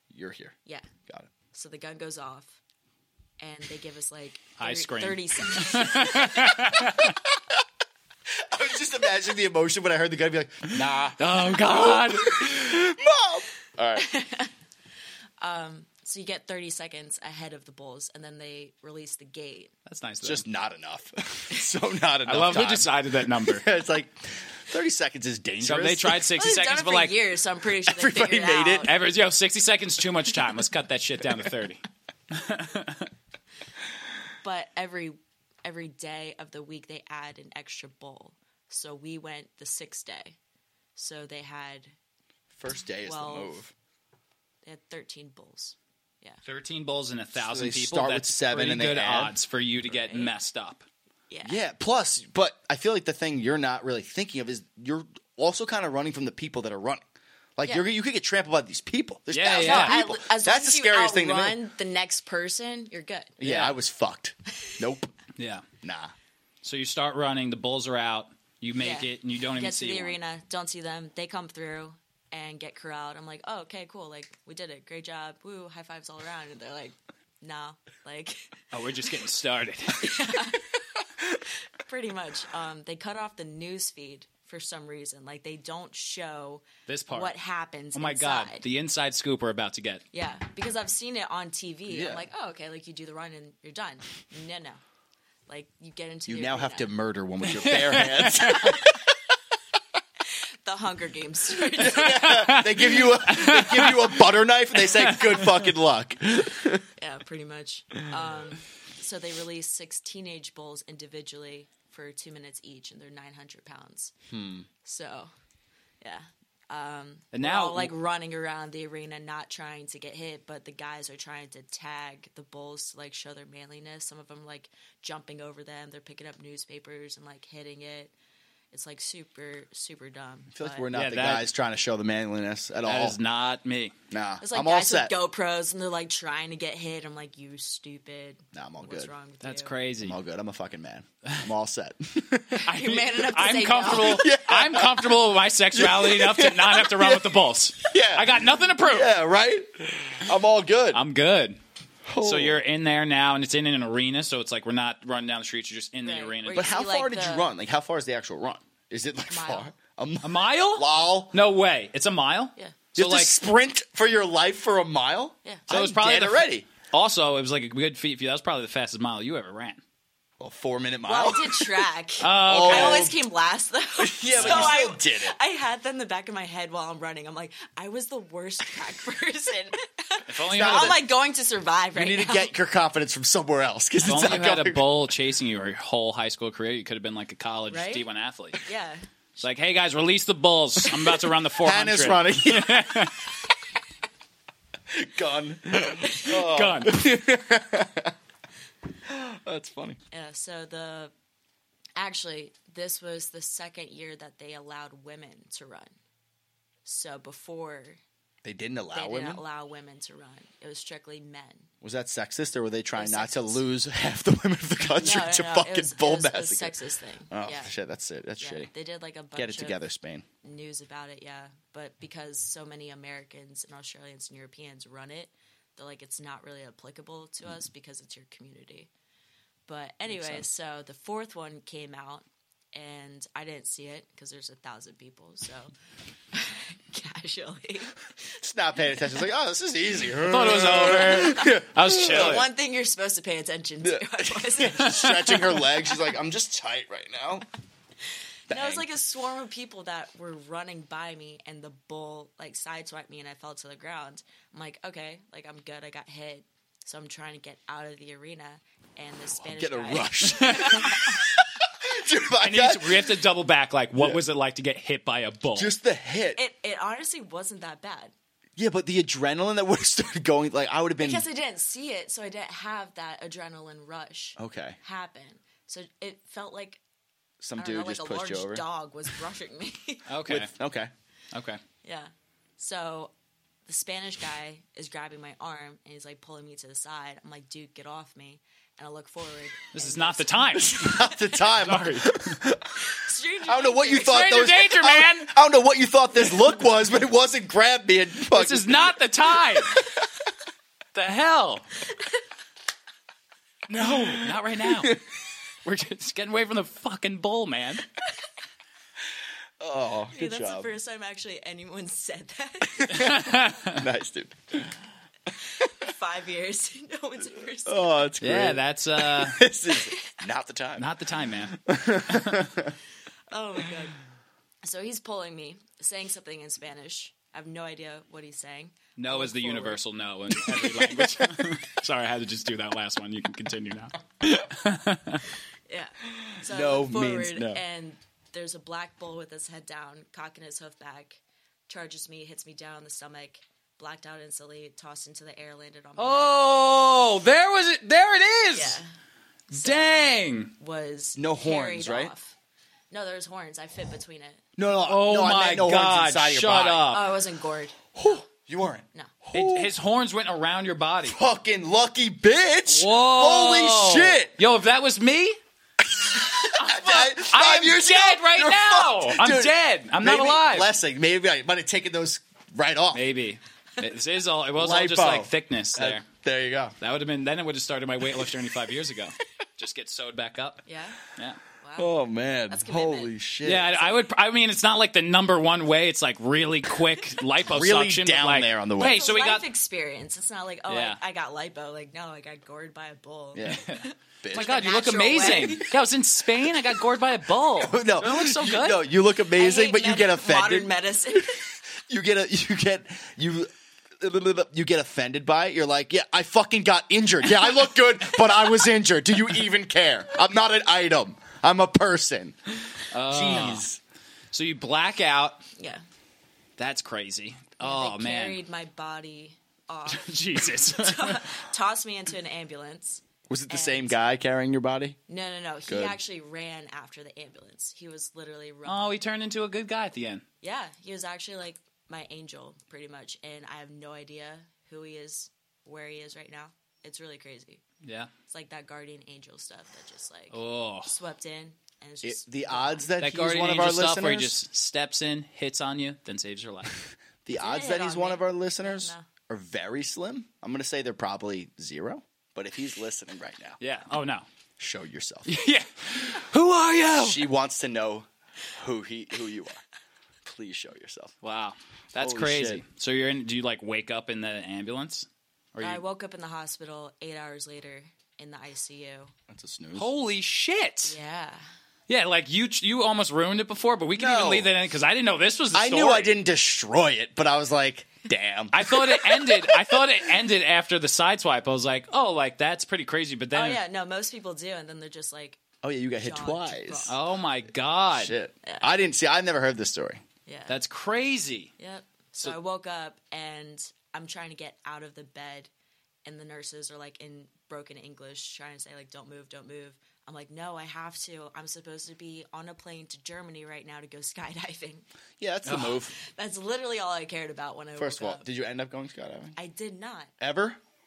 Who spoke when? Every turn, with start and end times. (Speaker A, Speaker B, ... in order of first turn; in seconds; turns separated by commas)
Speaker A: 0.1-0.6, Speaker B: 1.5-2.6, Speaker B: 3.4-6.6, Speaker C: 4.6-7.2, Speaker A: 8.4-14.1, Speaker C: 10.7-12.8, Speaker B: 14.0-14.5, Speaker B: 15.4-19.7, Speaker C: 19.9-20.4, Speaker A: 20.2-26.2, Speaker C: 22.3-23.7, Speaker C: 25.6-27.2, Speaker B: 26.3-28.9, Speaker A: 27.8-28.9, Speaker C: 28.8-33.1, Speaker B: 34.4-40.4, Speaker B: 41.0-41.9, Speaker A: 42.5-43.7, Speaker B: 43.0-43.6, Speaker B: 44.6-46.4, Speaker C: 46.5-50.9, Speaker A: 47.4-49.3, Speaker B: 49.9-50.3, Speaker B: 51.3-51.6, Speaker A: 51.4-57.0, Speaker A: 57.6-61.6, Speaker C: 59.3-60.0, Speaker B: 59.6-63.4, Speaker A: 63.4-65.1, Speaker C: 63.4-63.8, Speaker C: 65.4-65.6, Speaker A: 65.8-66.1, Speaker C: 66.6-70.2, Speaker B: 68.8-78.5, Speaker C: 78.7-80.2, Speaker B: 80.0-80.8, Speaker B: 81.6-88.6, Speaker C: 86.9-87.3, Speaker C: 87.9-90.0, Speaker B: 90.1-94.8, Speaker A: 91.9-92.2, Speaker B: 95.5-96.9, Speaker A: 96.3-99.0, Speaker C: 97.5-98.9, Speaker B: 100.7-102.5, Speaker A: 101.7-106.8, Speaker C: 102.0-104.2, Speaker C: 105.0-105.6, Speaker B: 107.0-114.1, Speaker A: 114.3-114.7, Speaker B: 114.8-115.3, Speaker B: 116.0-128.1, Speaker C: 117.3-117.9, Speaker B: 128.7-130.9, Speaker A: 130.5-133.2, Speaker C: 130.9-131.5, Speaker C: 132.8-133.9, Speaker A: 134.1-135.1, Speaker B: 134.4-139.7, Speaker A: 138.5-139.1, Speaker C: 139.4-140.2, Speaker A: 140.0-142.7, Speaker B: 142.6-144.3, Speaker C: 142.7-149.1, Speaker A: 144.0-151.0, Speaker C: 150.9-151.6, Speaker A: 152.1-152.6, Speaker C: 152.2-156.7, Speaker B: 156.0-157.5, Speaker A: 156.5-161.3, Speaker B: 159.3-159.7, Speaker C: 160.2-163.3, Speaker A: 163.0-166.7, Speaker C: 165.7-169.8, Speaker A: 170.4-171.9, Speaker B: 171.1-182.5, Speaker C: 172.2-173.1, Speaker A: 172.4-173.2, Speaker A: 174.0-175.3, Speaker C: 174.3-174.8, Speaker C: 180.3-181.0, Speaker A: 180.5-181.1, Speaker A: 181.9-184.9, Speaker C: 184.0-188.6, Speaker B: 187.7-188.1, Speaker B: 188.6-189.0, Speaker C: 189.4-193.3, Speaker A: 190.9-193.1, Speaker A: 194.9-198.2, Speaker C: 196.1-197.0, Speaker A: 199.1-200.0, Speaker B: 200.1-201.1, Speaker B: 202.0-205.9, Speaker B: 206.8-208.0, Speaker A: 208.4-209.4, Speaker B: 208.9-211.7, Speaker A: 211.8-216.8, Speaker B: 212.9-213.6, Speaker B: 214.9-217.7, Speaker A: 217.3-218.7, Speaker B: 218.4-219.8, Speaker A: 219.4-220.3, Speaker B: 220.4-228.9, Speaker B: 229.7-235.7, Speaker B: 236.3-238.4, Speaker A: 238.4-242.4, Speaker C: 240.2-242.5, Speaker B: 240.9-246.0, Speaker A: 243.8-247.5, Speaker A: 248.5-248.9, Speaker B: 248.5-261.2, Speaker A: 259.4-263.2, Speaker C: 260.4-260.8, Speaker C: 262.4-265.7, Speaker A: 265.6-266.4, Speaker B: 266.4-268.1, Speaker A: 268.6-271.2, Speaker B: 271.0-276.8, Speaker A: 274.4-274.8, Speaker A: 277.4-278.6, Speaker B: 277.6-280.1, Speaker C: 280.1-280.5, Speaker A: 280.3-280.9, Speaker C: 281.3-281.6, Speaker B: 281.8-283.1, Speaker B: 283.7-291.4, Speaker C: 289.7-292.4, Speaker A: 290.5-292.9, Speaker B: 292.8-294.4, Speaker A: 293.4-300.0, Speaker C: 294.0-295.3, Speaker C: 298.3-299.9, Speaker C: 300.9-301.7, Speaker C: 303.7-305.0, Speaker A: 303.7-305.0, Speaker C: 305.6-307.9, Speaker A: 309.6-310.7, Speaker B: 310.1-313.2, Speaker A: 312.8-314.8, Speaker C: 313.0-313.9, Speaker B: 315.5-318.0, Speaker A: 317.7-320.9, Speaker C: 318.2-319.4, Speaker C: 320.8-322.4, Speaker A: 321.7-322.8, Speaker B: 323.3-324.0, Speaker B: 324.6-329.8, Speaker C: 329.0-335.2, Speaker A: 330.6-331.5, Speaker B: 335.7-346.4, Speaker A: 336.2-337.6, Speaker C: 346.0-348.8, Speaker B: 348.5-348.9, Speaker B: 349.5-352.4, Speaker C: 349.5-350.5, Speaker A: 351.2-352.1, Speaker B: 352.9-354.4, Speaker A: 354.6-356.9, Speaker C: 354.9-357.1, Speaker B: 356.9-358.2, Speaker A: 357.9-359.7, Speaker C: 359.3-361.2, Speaker A: 361.1-364.3, Speaker C: 362.7-365.4, Speaker A: 365.9-373.1, Speaker C: 366.5-370.7, Speaker C: 372.9-376.1, Speaker A: 374.6-376.8, Speaker C: 376.8-381.4, Speaker B: 380.7-381.0, Speaker B: 381.6-382.0, Speaker A: 381.8-383.8, Speaker B: 382.5-384.0, Speaker C: 383.4-389.5, Speaker A: 387.4-389.1, Speaker B: 388.8-395.7, Speaker C: 390.7-391.0, Speaker A: 393.3-393.7, Speaker C: 393.5-398.8, Speaker A: 394.2-394.7, Speaker A: 397.6-401.2, Speaker B: 399.3-401.5, Speaker A: 401.9-412.4, Speaker C: 412.8-413.6, Speaker A: 413.0-413.8, Speaker C: 414.3-415.5, Speaker B: 415.6-415.8, Speaker C: 416.6-418.4, Speaker B: 417.6-424.0, Speaker C: 419.9-421.4, Speaker A: 423.3-425.0, Speaker B: 425.1-429.0, Speaker A: 425.7-426.0, Speaker C: 428.7-430.2, Speaker B: 430.4-437.6, Speaker C: 437.8-438.1, Speaker B: 438.3-442.9, Speaker C: 440.3-440.9, Speaker A: 442.0-444.4, Speaker C: 443.0-446.8, Speaker A: 447.3-453.6, Speaker B: 447.4-449.1, Speaker C: 453.6-454.3, Speaker A: 454.6-455.3, Speaker C: 455.3-457.2, Speaker A: 457.0-459.6, Speaker A: 460.2-461.1, Speaker C: 461.2-465.8, Speaker A: 462.0-462.6, Speaker B: 465.6-469.1, Speaker A: 469.3-469.9, Speaker C: 469.8-471.0, Speaker B: 470.9-471.4, Speaker C: 471.9-476.1, Speaker A: 474.0-474.5, Speaker A: 475.5-480.0, Speaker C: 478.5-483.6, Speaker B: 483.3-485.4, Speaker A: 485.6-487.0, Speaker B: 486.0-487.0, Speaker C: 486.9-488.1, Speaker A: 487.9-490.0, Speaker B: 488.4-488.7, Speaker B: 490.3-490.6, Speaker C: 490.5-491.5, Speaker B: 491.6-495.5, Speaker B: 496.1-504.9, Speaker A: 505.2-505.9, Speaker C: 505.4-505.9, Speaker B: 505.9-508.2, Speaker A: 507.8-509.4, Speaker B: 509.4-510.1, Speaker A: 510.2-510.6